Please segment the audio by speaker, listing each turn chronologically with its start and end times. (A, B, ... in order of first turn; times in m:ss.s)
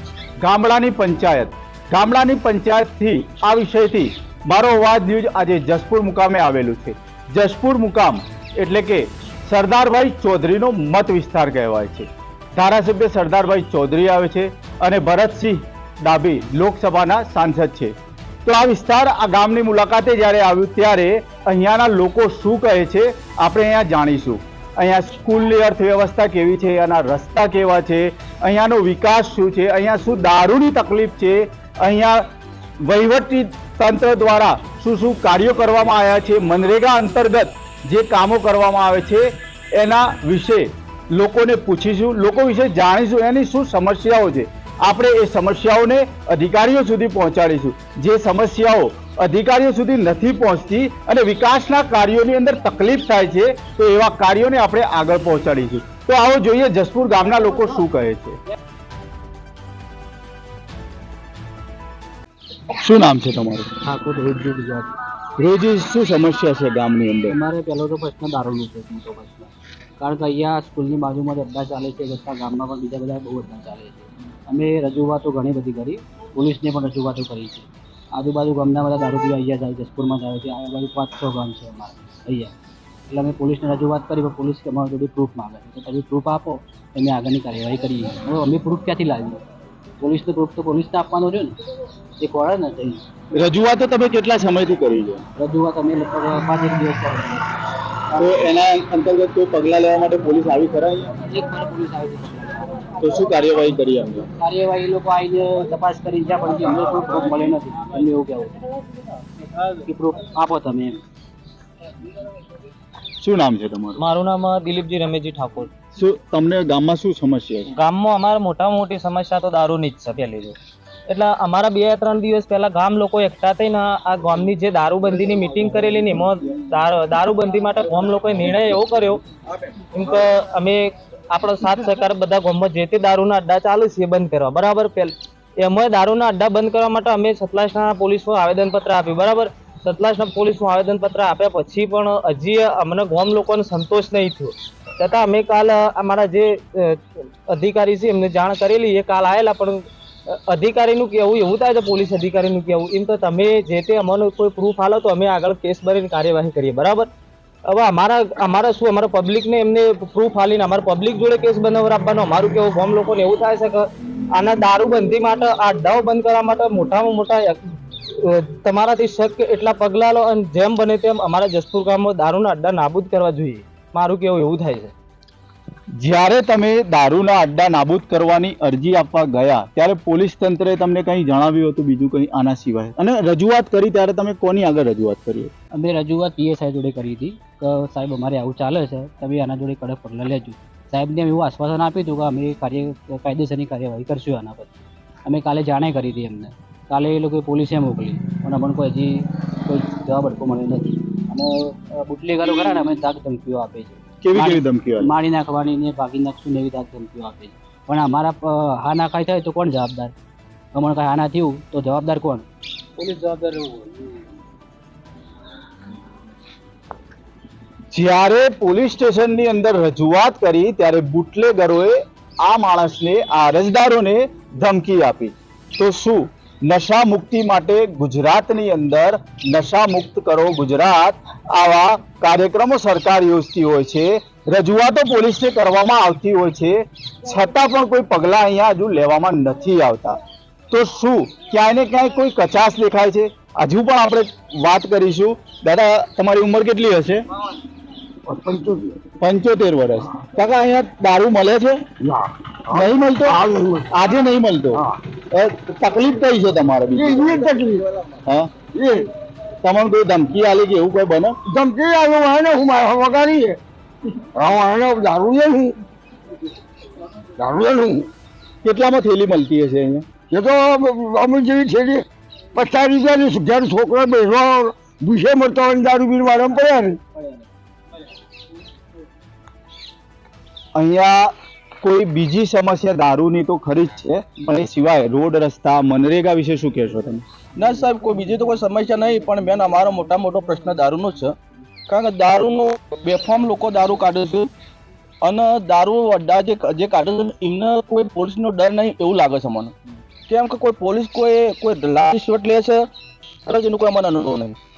0:00.4-0:17.9 A
0:18.4-0:32.2 A
0:32.8-0:58.4 A
1:02.8-1:03.7 A
1:03.8-1:05.0 B
1:05.4-1:07.4 A
1:07.3-1:22.5 B
1:23.1-1:29.4 B
1:30.0-1:31.6 B
1:32.2-1:33.0 B
1:33.3-1:35.2 A
1:35.4-1:37.4 B
1:38.1-1:38.5 B
1:38.2-1:41.1 A
1:41.3-1:43.0 B
1:43.0-1:44.3 A
1:44.4-1:48.6 B
1:49.8-1:51.0 B
1:53.2-1:54.0 A
1:54.0-1:55.7 C
1:56.0-1:57.7 A
1:57.7-2:00.6 C
2:01.1-2:09.2 C
2:09.9-2:37.1 C
2:37.7-2:54.9 C
2:56.0-3:05.5 A
3:05.7-3:30.1 B
3:24.2-3:25.1 A
3:30.7-3:32.4 B
3:33.0-3:34.1 B
3:37.9-4:00.2 A
4:00.7-4:07.2 A
4:08.3-4:09.0 D
4:09.2-4:11.8 A
4:12.0-4:13.9 D
4:12.7-4:17.4 A
4:17.0-4:18.0 D
4:18.7-4:19.1 D
4:19.6-4:21.4 A
4:21.5-4:23.6 D
4:24.2-4:25.8 D
4:27.4-4:28.1 D
4:28.6-4:30.1 A
4:30.3-4:37.0 D
4:40.8-4:47.2 A
4:47.6-4:51.3 E
4:51.9-4:54.5 E
4:55.2-4:59.7 E
5:00.3-5:02.9 E
5:03.5-5:04.6 E